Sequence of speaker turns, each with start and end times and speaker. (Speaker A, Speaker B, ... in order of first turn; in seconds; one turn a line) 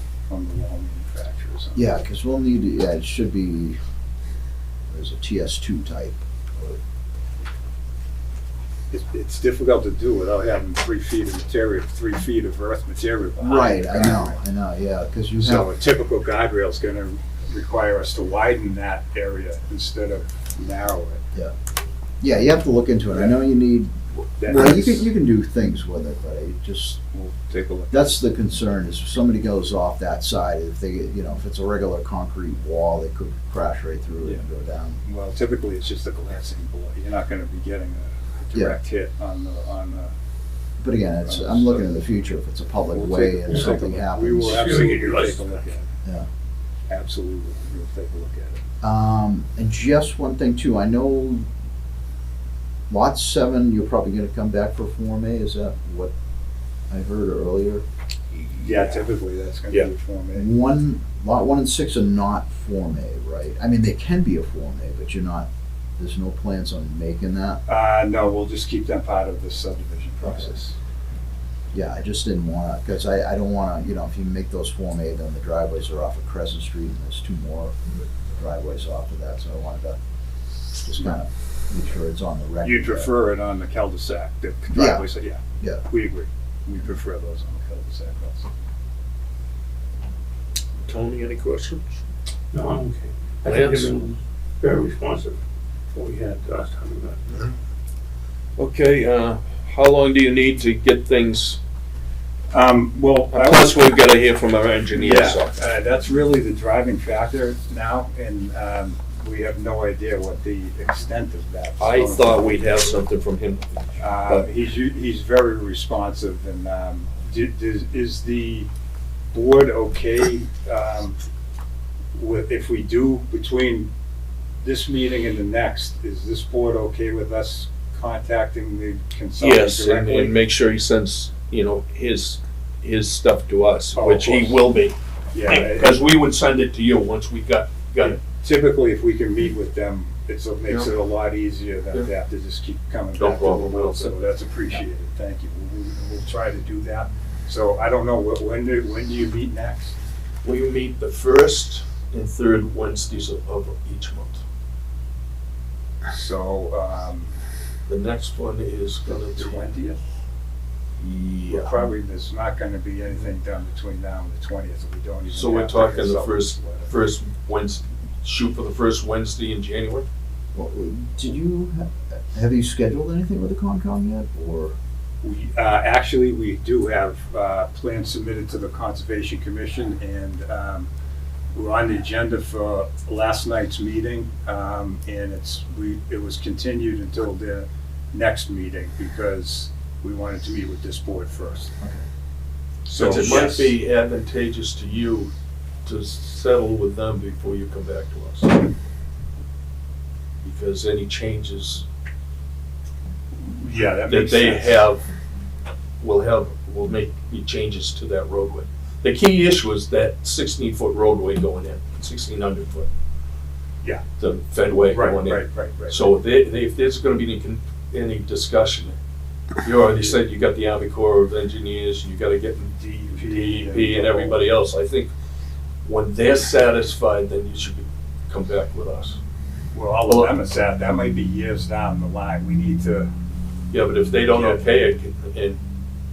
Speaker A: 0.3-1.9
Speaker B: 1.7-3.8
Speaker B: 4.9-6.8
Speaker A: 8.9-14.3
Speaker B: 13.4-15.7
Speaker A: 15.4-21.2
Speaker B: 22.2-27.0
Speaker A: 23.1-23.4
Speaker A: 24.4-25.1
Speaker A: 27.1-28.2
Speaker B: 27.9-35.0
Speaker A: 35.0-40.1
Speaker B: 40.8-44.7
Speaker A: 41.2-41.9
Speaker A: 42.9-45.9
Speaker C: 44.5-45.5
Speaker A: 46.9-48.6
Speaker B: 48.8-51.5
Speaker B: 52.9-56.1
Speaker B: 56.9-59.1
Speaker A: 58.6-60.5
Speaker B: 60.3-67.6
Speaker A: 67.7-70.8
Speaker B: 70.2-70.5
Speaker B: 71.7-77.8
Speaker B: 78.3-80.0
Speaker B: 80.8-83.1
Speaker A: 82.6-88.5
Speaker B: 84.7-85.1
Speaker D: 90.8-92.0
Speaker C: 92.5-95.4
Speaker D: 93.4-94.0
Speaker C: 95.9-97.4
Speaker D: 98.6-101.6
Speaker A: 102.5-103.9
Speaker D: 103.3-105.6
Speaker A: 104.9-112.5
Speaker D: 111.8-114.5
Speaker A: 114.0-118.7
Speaker A: 119.3-121.2
Speaker A: 122.1-123.9
Speaker A: 124.6-130.4
Speaker D: 129.4-138.2
Speaker A: 133.9-134.6
Speaker A: 135.3-136.0
Speaker A: 138.0-150.0
Speaker D: 143.2-144.8
Speaker D: 150.4-154.4
Speaker A: 156.1-157.3
Speaker D: 157.9-159.7
Speaker A: 159.1-160.0
Speaker D: 161.0-161.8
Speaker A: 161.5-166.9
Speaker D: 165.3-170.1
Speaker B: 170.5-174.8
Speaker A: 175.2-180.9
Speaker A: 181.5-191.7
Speaker A: 192.8-193.7
Speaker D: 192.9-195.3
Speaker D: 195.8-198.7
Speaker D: 200.4-201.8
Speaker A: 203.4-204.8
Speaker D: 204.1-205.0
Speaker D: 206.0-212.9
Speaker D: 214.2-218.9
Speaker A: 214.9-216.1
Speaker D: 219.6-225.1
Speaker A: 222.8-224.4
Speaker D: 225.8-229.2
Speaker A: 229.7-233.1
Speaker D: 230.1-230.3
Speaker D: 233.7-235.6
Speaker A: 234.3-234.6